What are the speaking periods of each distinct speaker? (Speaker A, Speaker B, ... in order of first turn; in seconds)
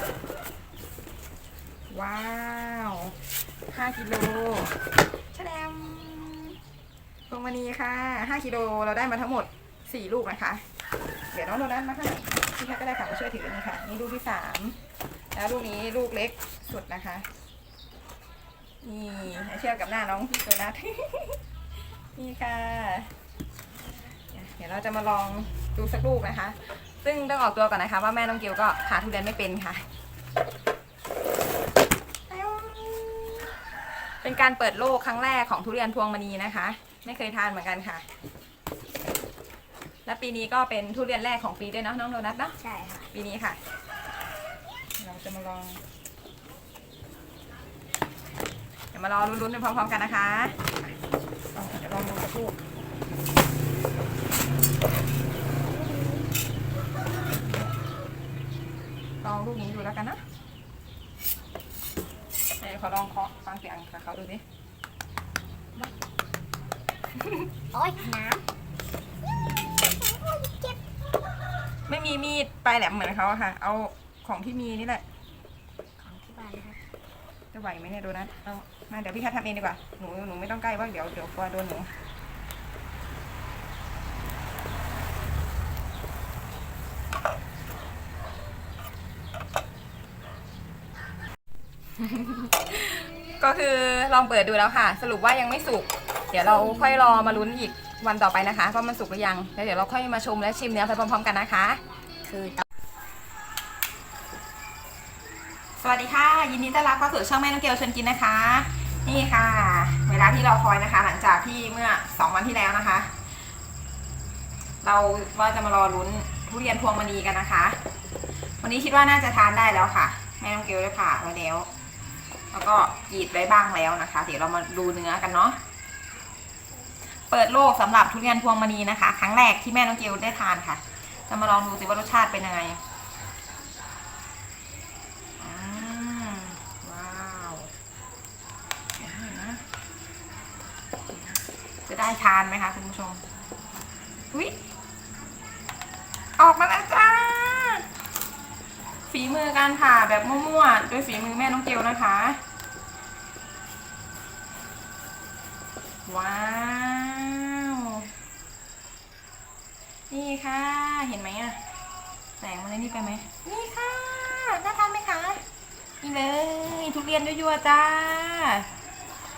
Speaker A: 1.9-3.2, 3.7-6.6, 7.3-10.6, 11.3-14.8, 15.3-17.3, 18.8-21.4, 22.1-23.1, 24.3-29.9, 32.3-33.5, 34.2-38.0, 40.0-42.6, 43.1-43.6, 45.0-45.8, 48.9-50.9, 51.5-52.6, 59.2-60.2, 62.6-64.4, 71.9-75.0, 77.5-81.9, 92.0-101.8, 105.8-113.2, 114.8-117.8, 118.6-121.7, 122.5-125.6, 127.2-132.8, 135.4-137.7, 139.0-139.6, 141.8-143.2, 144.3-144.6, 146.4-147.9, 149.1-152.4, 156.1-158.1, 160.1-161.6, 162.4-165.4, 166.0-168.7
Speaker B: 42.6-43.1, 67.7-68.4, 69.8-70.8, 76.0-76.8, 102.2-102.6